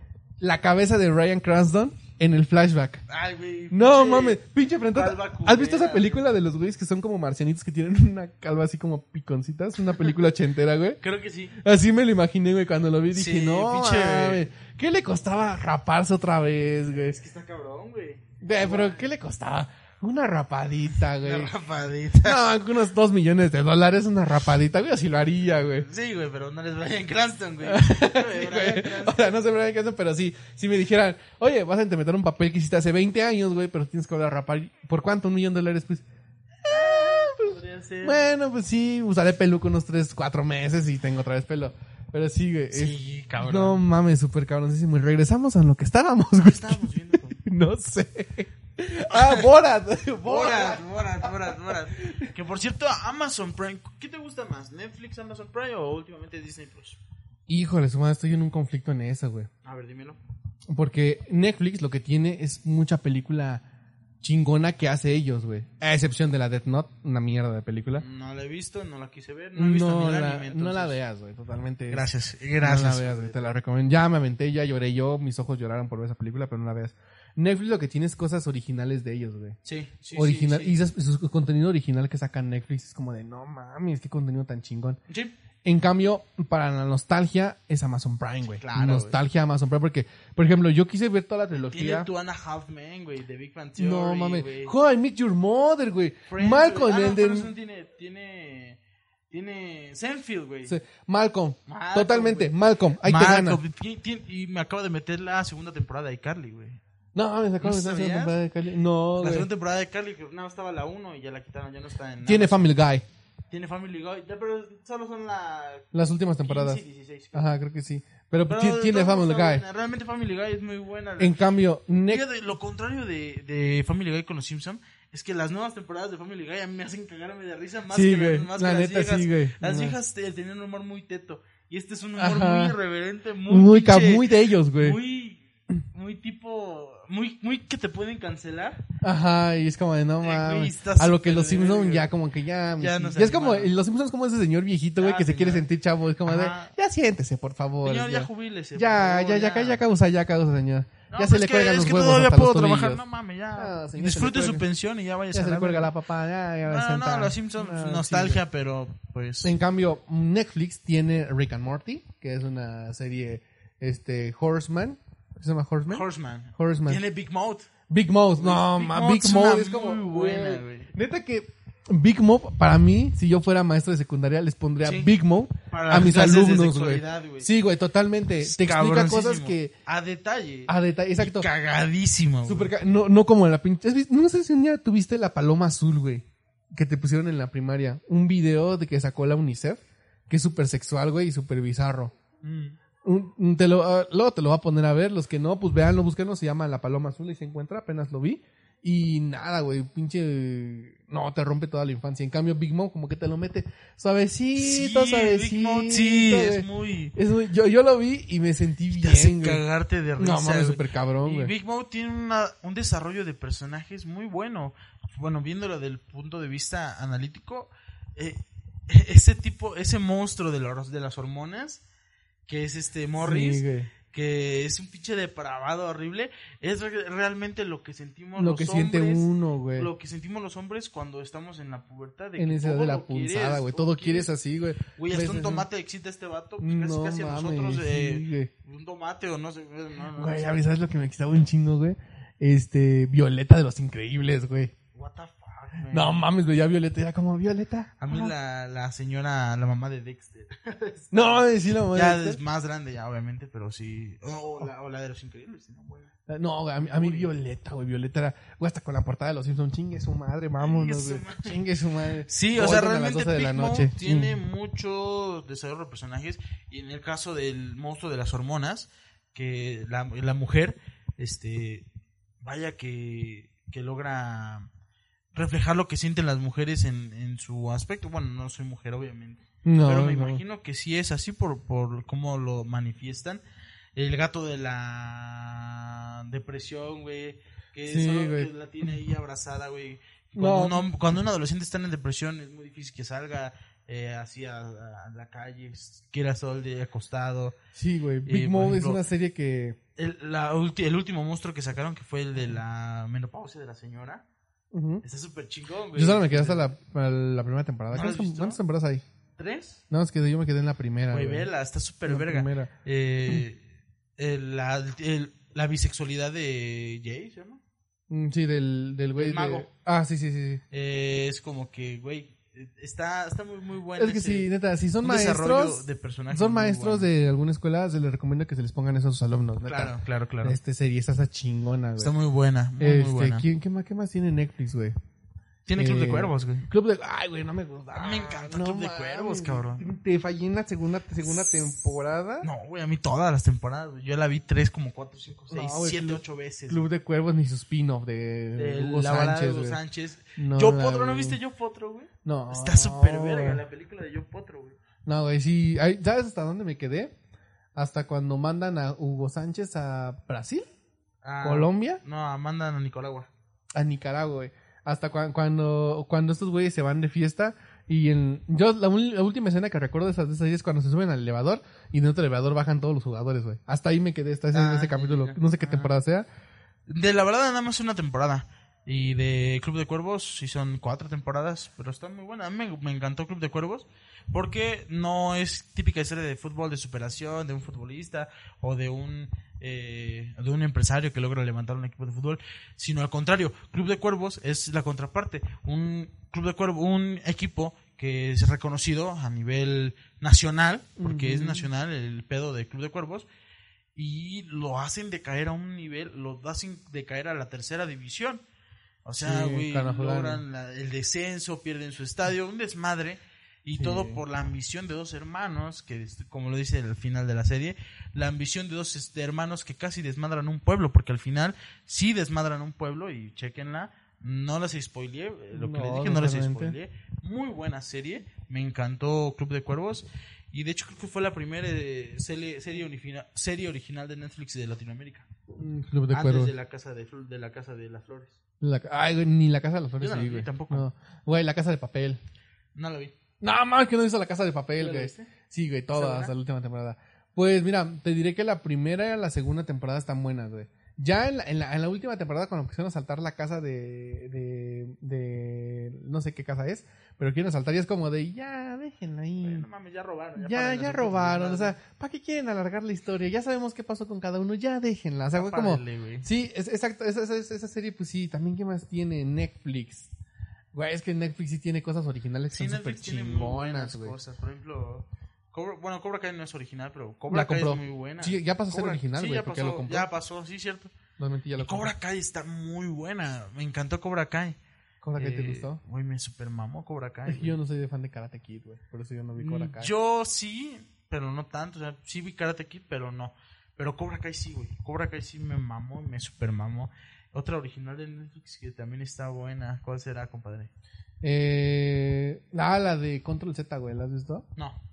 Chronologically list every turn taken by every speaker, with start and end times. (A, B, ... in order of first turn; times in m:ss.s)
0:00.4-0:03.0 A
0:03.1-0:06.2 B
0:03.7-0:11.0 A
0:11.0-0:11.6 B
0:11.6-0:17.2 A
0:13.1-0:14.5 B
0:17.0-0:19.1 B
0:18.4-0:21.5 A
0:21.2-0:22.5 B
0:22.2-0:25.9 A
0:25.8-0:29.5 B
0:27.6-0:36.0 A
0:36.6-0:38.2 B
0:36.6-0:52.3 A
0:42.7-0:43.8 B
0:46.4-0:47.4 B
0:49.1-0:49.5 B
0:50.2-0:57.0 B
0:57.5-0:59.5 A
0:59.6-1:00.2 B
1:00.7-1:03.6 A
1:04.2-1:08.0 A
1:08.0-1:11.0 B
1:09.6-1:12.1 A
1:11.9-1:13.4 B
1:12.6-1:19.6 A
1:19.6-1:20.8 B
1:20.1-1:25.0 A
1:25.1-1:25.4 B
1:25.6-1:32.1 A
1:28.6-1:29.2 B
1:31.6-1:34.7 B
1:33.8-1:37.5 A
1:36.3-1:38.8 B
1:39.3-1:40.8 B
1:40.7-1:43.6 A
1:41.7-1:46.8 B
1:47.2-1:49.5 A
1:47.6-1:48.4 B
1:49.2-1:52.7 B
1:52.2-1:53.1 A
1:53.5-1:55.9 B
1:55.9-1:56.8 A
1:56.4-1:57.5 B
1:57.3-1:59.6 A
1:58.5-2:01.5 B
2:01.2-2:02.2 A
2:02.1-2:18.8 B
2:07.9-2:10.0 A
2:12.2-2:12.8 A
2:13.5-2:15.0 A
2:19.0-2:33.0 A
2:20.2-2:22.1 B
2:22.8-2:23.7 B
2:25.0-2:25.7 B
2:26.2-2:26.7 B
2:27.8-2:29.8 B
2:31.1-2:35.9 B
2:33.6-2:34.7 A
2:35.3-2:38.4 A
2:36.7-2:39.5 B
2:39.4-2:46.1 A
2:45.9-2:47.7 B
2:46.6-2:47.0 A
2:47.9-2:59.7 A
2:48.4-2:50.9 B
2:54.8-2:55.1 B
2:55.7-2:57.5 B
2:58.4-3:02.7 B
3:00.7-3:01.5 A
3:02.4-3:12.1 A
3:12.4-3:12.8 B
3:13.0-3:29.6 A
3:24.6-3:27.2 B
3:28.9-3:41.8 B
3:30.2-3:31.5 A
3:42.5-3:54.3 B
3:43.2-3:43.9 A
3:48.4-3:49.9 A
3:52.4-3:55.7 A
3:55.0-4:00.6 B
3:56.6-3:58.5 A
4:00.2-4:04.7 A
4:04.9-4:06.2 B
4:05.9-4:08.3 A
4:08.0-4:16.1 B
4:11.1-4:12.4 A
4:16.3-4:24.4 A
4:16.8-4:17.3 B
4:20.6-4:21.6 B
4:22.3-4:31.9 B
4:32.4-4:34.7 B
4:35.3-4:43.4 B
4:39.6-4:40.4 A
4:44.0-4:57.6 B
4:47.8-4:48.5 A
4:50.4-4:50.9 A
4:57.8-4:59.8 A
4:58.3-4:59.0 B
5:00.0-5:04.2 B
5:04.7-5:05.0 A
5:05.0-5:06.7 B
5:06.0-5:09.0 A
5:07.9-5:08.6 B
5:09.4-5:09.8 B
5:09.9-5:11.5 A
5:11.1-5:13.6 B
5:12.1-5:12.7 A
5:14.2-5:17.6 B
5:18.1-5:20.6 A
5:19.2-5:19.7 B
5:20.7-5:24.5 B
5:24.0-5:32.1 A
5:25.0-5:27.1 B
5:29.6-5:30.6 B
5:32.0-5:33.4 B
5:32.8-5:35.0 A
5:35.7-5:36.7 B
5:35.8-5:42.5 A
5:37.9-5:39.9 B
5:41.2-5:41.6 B
5:42.4-5:46.9 B
5:45.5-5:49.8 A
5:48.6-5:54.8 B
5:50.4-5:51.4 A
5:52.2-5:53.6 A
5:55.1-5:57.1 A
5:57.8-6:00.7 A
6:01.2-6:03.3 B
6:01.4-6:02.0 A
6:03.8-6:16.3 A
6:14.5-6:15.9 B
6:16.9-6:43.3 B
6:41.0-6:41.7 A
6:44.0-6:48.4 B
6:49.0-7:15.3 B
6:49.2-6:50.4 A
6:53.8-6:54.2 A
7:05.5-7:06.8 A
7:15.6-7:16.5 A
7:16.1-7:18.4 B
7:18.6-7:22.2 A
7:20.0-7:20.9 B
7:22.8-7:23.2 B
7:23.4-7:39.7 A
7:24.8-7:25.3 B
7:25.9-7:26.3 B
7:39.4-7:41.8 B
7:40.4-7:50.1 A
7:45.3-7:46.3 B
7:50.7-7:54.2 A
7:52.5-8:00.9 B
7:57.3-8:00.1 A
8:01.2-8:01.9 A
8:01.6-8:04.6 B
8:05.0-8:05.8 A
8:05.2-8:07.6 B
8:07.3-8:09.9 A
8:09.4-8:20.7 B
8:21.2-8:24.5 A